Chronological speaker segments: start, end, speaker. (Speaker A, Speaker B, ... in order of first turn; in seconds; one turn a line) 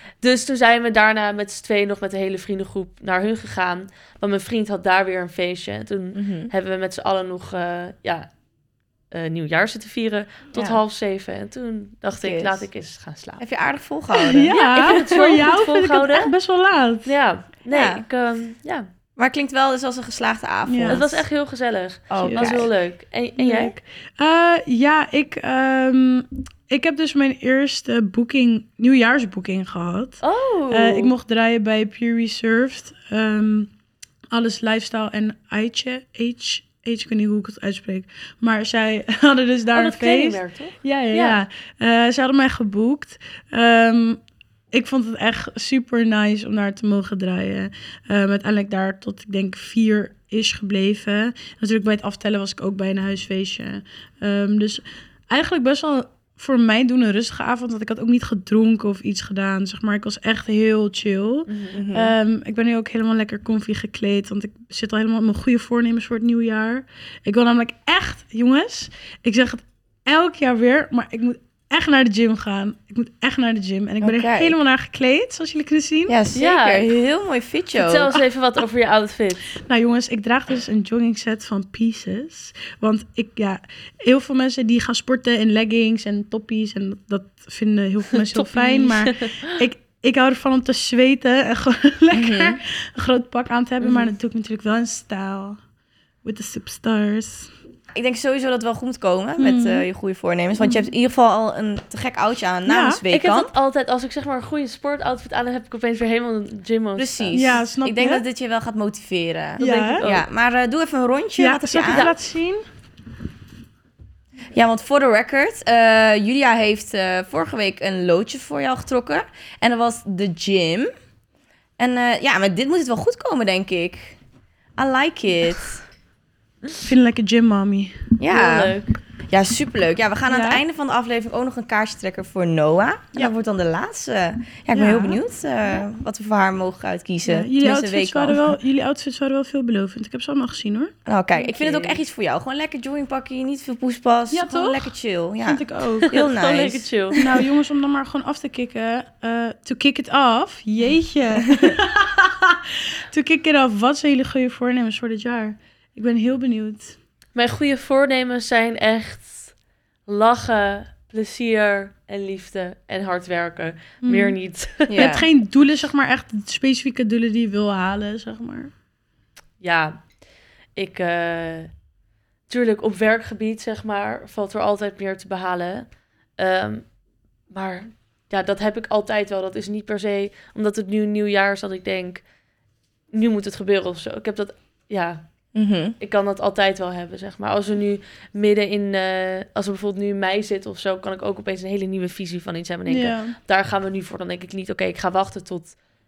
Speaker A: 0.2-8.3
Speaker B: 6.1-6.5
Speaker A: 9.1-13.4
Speaker B: 10.5-10.8
Speaker B: 12.2-12.6
Speaker B: 13.4-14.5
Speaker C: 14.1-17.1
Speaker A: 14.5-16.3
Speaker A: 17.0-18.9
Speaker B: 17.7-18.0
Speaker B: 19.2-21.2
Speaker C: 20.7-21.0
Speaker A: 20.9-23.8
Speaker B: 22.1-22.7
Speaker C: 22.2-22.7
Speaker C: 23.4-33.7
Speaker A: 30.2-31.1
Speaker C: 34.3-44.2
Speaker A: 39.7-41.4
Speaker C: 44.7-76.1
Speaker A: 61.5-61.8
Speaker B: 61.7-62.1
Speaker B: 74.0-74.5
Speaker B: 76.1-78.2
Speaker A: 76.3-76.9
Speaker A: 77.8-79.5
Speaker C: 79.6-95.6
Speaker A: 88.3-89.6
Speaker B: 92.1-92.6
Speaker C: 96.2-97.5
Speaker B: 97.9-103.5
Speaker C: 99.4-99.8
Speaker C: 100.6-100.9
Speaker C: 102.7-103.0
Speaker A: 103.1-107.6
Speaker B: 107.0-112.1
Speaker C: 107.3-108.2
Speaker A: 109.6-110.2
Speaker C: 109.6-110.0
Speaker C: 111.4-112.6
Speaker A: 111.9-112.1
Speaker B: 114.5-120.9
Speaker B: 121.8-124.2
Speaker B: 124.8-125.8
Speaker C: 126.8-128.0
Speaker B: 128.2-128.8
Speaker A: 128.3-128.9
Speaker B: 129.3-138.5
Speaker C: 130.3-130.6
Speaker C: 134.7-135.2
Speaker C: 137.2-140.9
Speaker B: 141.1-146.9
Speaker A: 141.4-142.0
Speaker C: 144.3-146.1
Speaker A: 146.1-147.2
Speaker C: 147.2-157.0
Speaker B: 151.4-151.7
Speaker A: 157.3-159.5
Speaker A: 160.1-165.1
Speaker C: 164.0-164.3
Speaker B: 164.9-165.3
Speaker C: 164.9-168.7
Speaker A: 169.6-170.0
Speaker A: 170.8-171.7
Speaker A: 172.5-176.8
Speaker A: 177.5-182.2
Speaker A: 183.1-185.2
Speaker B: 185.5-185.9
Speaker A: 186.0-195.7
Speaker C: 192.9-193.3